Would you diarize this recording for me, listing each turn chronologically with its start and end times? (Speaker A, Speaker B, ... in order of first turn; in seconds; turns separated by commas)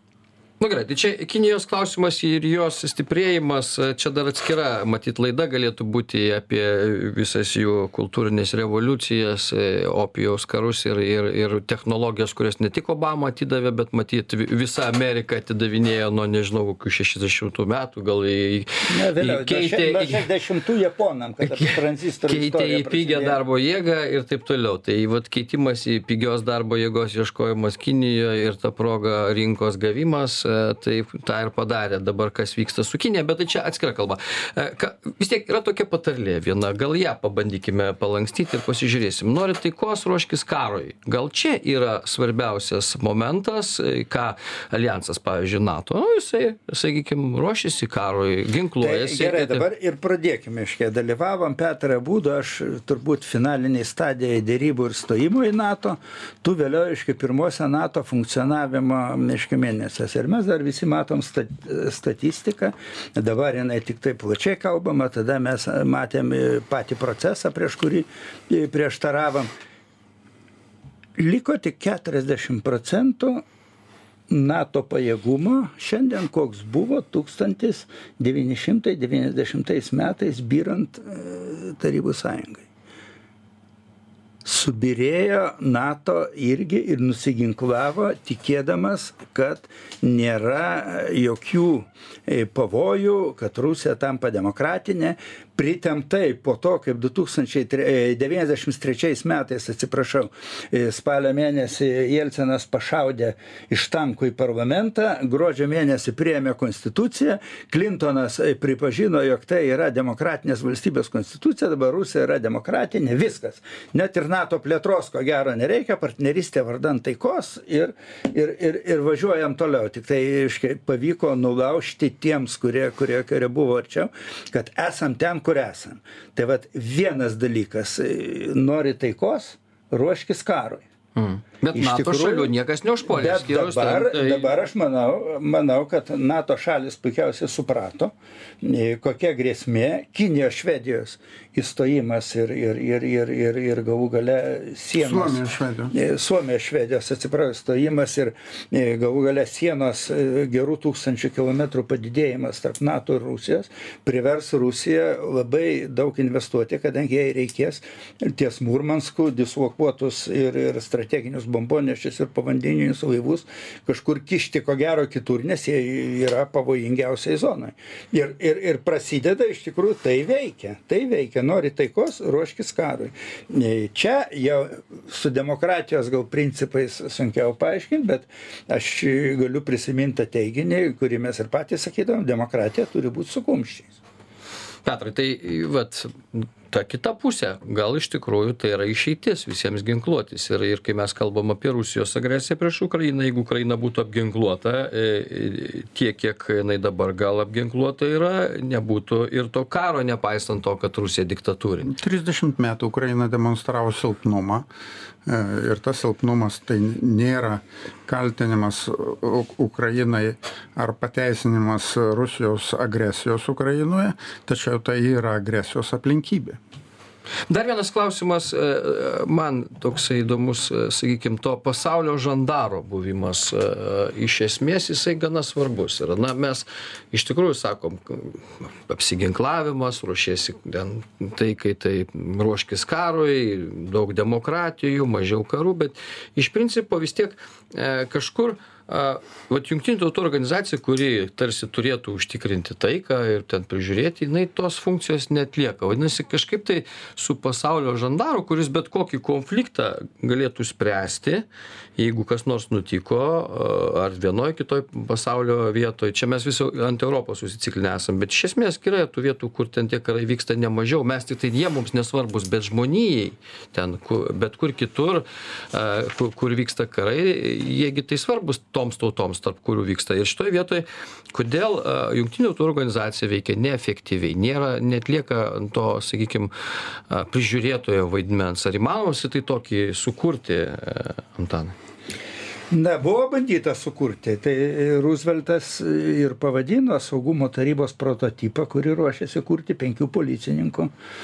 Speaker A: 0.6-20.3, Speaker B: 18.9-23.4, Speaker A: 21.4-49.6, Speaker B: 48.8-69.5, Speaker B: 71.2-73.4, Speaker B: 74.3-82.7, Speaker B: 84.5-130.8, Speaker A: 131.2-134.5, Speaker B: 131.8-132.5, Speaker B: 133.1-184.0, Speaker C: 145.0-145.9, Speaker A: 184.8-201.9, Speaker C: 201.9-204.7, Speaker C: 205.3-216.6, Speaker A: 217.5-251.5, Speaker A: 252.0-276.5, Speaker A: 277.1-281.8, Speaker B: 282.7-290.9